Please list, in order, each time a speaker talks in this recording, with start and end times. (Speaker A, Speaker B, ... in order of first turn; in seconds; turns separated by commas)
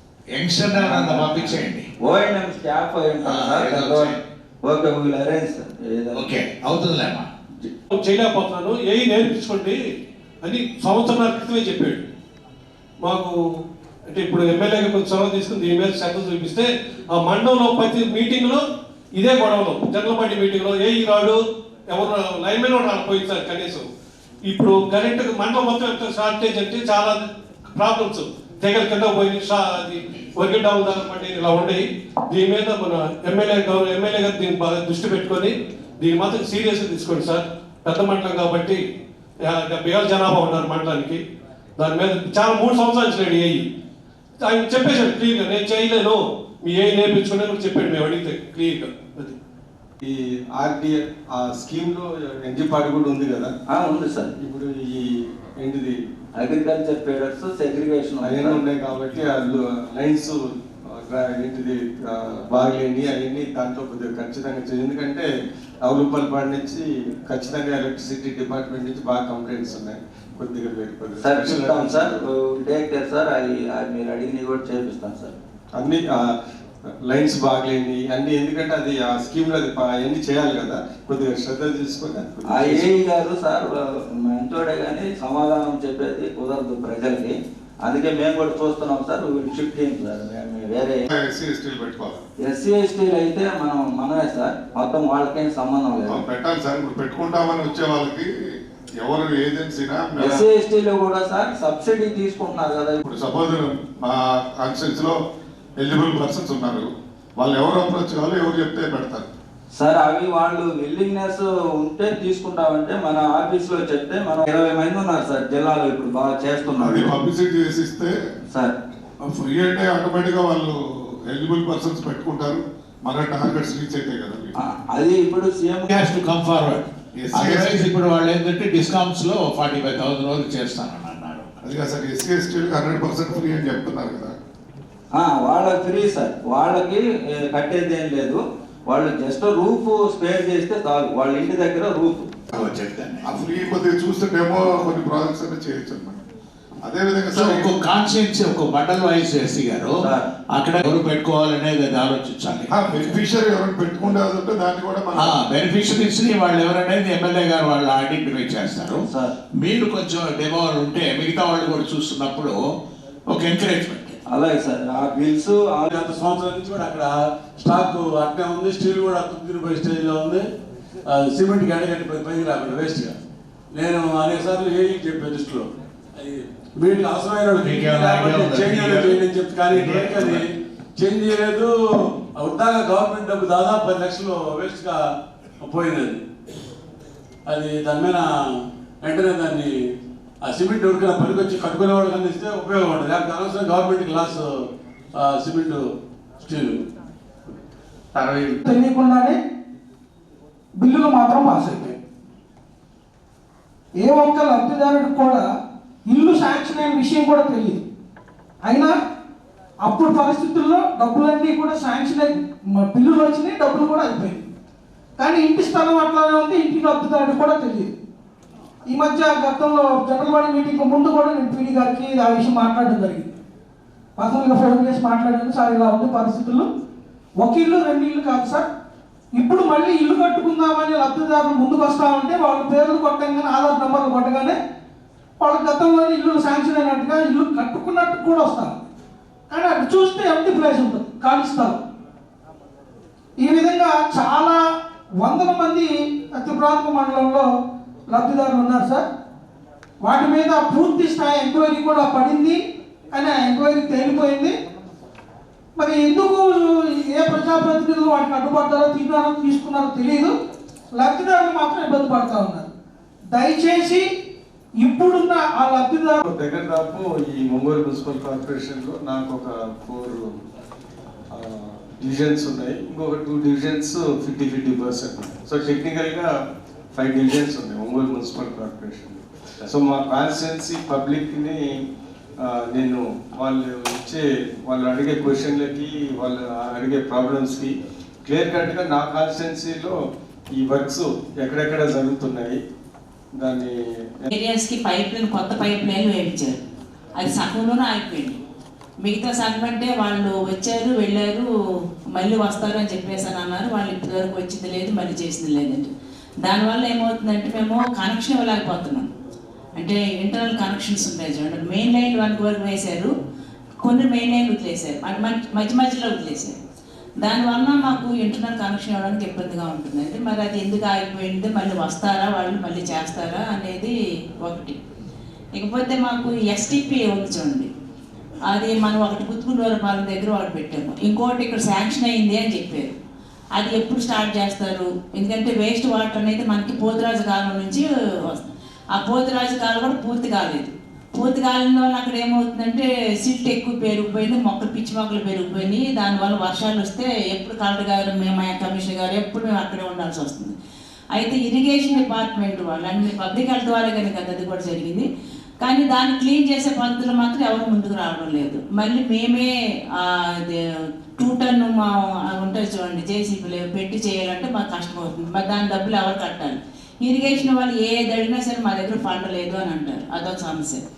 Speaker A: 0.3-1.9, Speaker B: 0.8-6.3, Speaker A: 3.2-4.2, Speaker A: 6.1-7.3, Speaker C: 7.9-9.8, Speaker C: 10.4-12.1, Speaker C: 13.0-13.3, Speaker C: 14.1-18.6, Speaker C: 19.1-21.4, Speaker C: 21.9-23.9, Speaker C: 24.5-27.2, Speaker C: 27.8-38.8, Speaker C: 39.5-41.2, Speaker C: 41.8-43.6, Speaker C: 44.4-49.4, Speaker D: 50.0-53.5, Speaker B: 53.7-54.3, Speaker D: 54.4-56.0, Speaker B: 56.4-58.6, Speaker D: 58.2-65.3, Speaker D: 65.8-72.2, Speaker B: 71.2-75.3, Speaker D: 75.8-76.3, Speaker D: 77.0-82.9, Speaker B: 82.6-91.1, Speaker E: 91.1-92.2, Speaker B: 92.4-96.2, Speaker E: 96.1-98.3, Speaker E: 99.0-100.5, Speaker B: 100.2-103.0, Speaker E: 103.0-105.2, Speaker E: 105.8-109.3, Speaker B: 109.7-117.1, Speaker E: 116.8-118.1, Speaker E: 119.3-120.8, Speaker E: 121.3-124.5, Speaker B: 124.6-125.9, Speaker A: 125.9-131.5, Speaker E: 127.2-127.9, Speaker E: 131.6-134.3, Speaker B: 135.2-142.3, Speaker A: 142.5-143.3, Speaker E: 143.2-146.2, Speaker E: 146.9-147.7, Speaker A: 147.3-150.0, Speaker B: 150.0-150.3, Speaker A: 150.5-153.1, Speaker E: 152.7-155.4, Speaker A: 155.2-159.0, Speaker A: 159.6-162.6, Speaker A: 163.3-164.2, Speaker B: 164.3-165.9, Speaker F: 166.0-170.4, Speaker F: 171.1-173.1, Speaker F: 173.8-175.7, Speaker F: 176.2-180.4, Speaker A: 177.6-180.5, Speaker F: 181.0-181.7, Speaker F: 182.4-185.0, Speaker F: 185.7-186.2, Speaker F: 187.5-188.2, Speaker F: 189.0-189.7, Speaker F: 190.4-194.5, Speaker F: 195.2-195.8, Speaker F: 196.5-196.8, Speaker G: 198.6-199.4, Speaker G: 200.8-202.0, Speaker G: 204.0-205.5, Speaker G: 206.1-207.8, Speaker G: 208.6-209.0, Speaker G: 209.8-214.5, Speaker G: 215.2-217.9, Speaker G: 218.9-223.3, Speaker G: 224.2-226.7, Speaker G: 227.4-228.7, Speaker G: 229.3-234.6, Speaker G: 235.4-238.8, Speaker G: 239.5-241.8, Speaker G: 243.4-244.6, Speaker G: 245.2-247.5, Speaker G: 248.1-249.1, Speaker G: 250.0-252.6, Speaker G: 253.1-254.5, Speaker G: 255.8-260.4, Speaker G: 260.9-262.7, Speaker G: 263.3-264.1, Speaker G: 264.8-266.2, Speaker D: 266.2-270.3, Speaker D: 271.3-276.3, Speaker D: 277.0-281.8, Speaker D: 282.4-287.7, Speaker D: 288.3-289.9, Speaker D: 290.5-292.6, Speaker D: 293.4-294.3, Speaker H: 294.3-296.6, Speaker H: 297.2-298.4, Speaker H: 299.0-301.5, Speaker H: 302.1-305.9, Speaker H: 306.4-309.1, Speaker H: 309.8-313.1, Speaker H: 313.8-316.6, Speaker H: 317.2-323.9, Speaker H: 324.4-324.8, Speaker H: 325.6-327.7, Speaker H: 328.5-332.9, Speaker H: 333.6-350.5, Speaker H: 351.1-355.1, Speaker H: 355.6-360.6, Speaker H: 361.2-370.8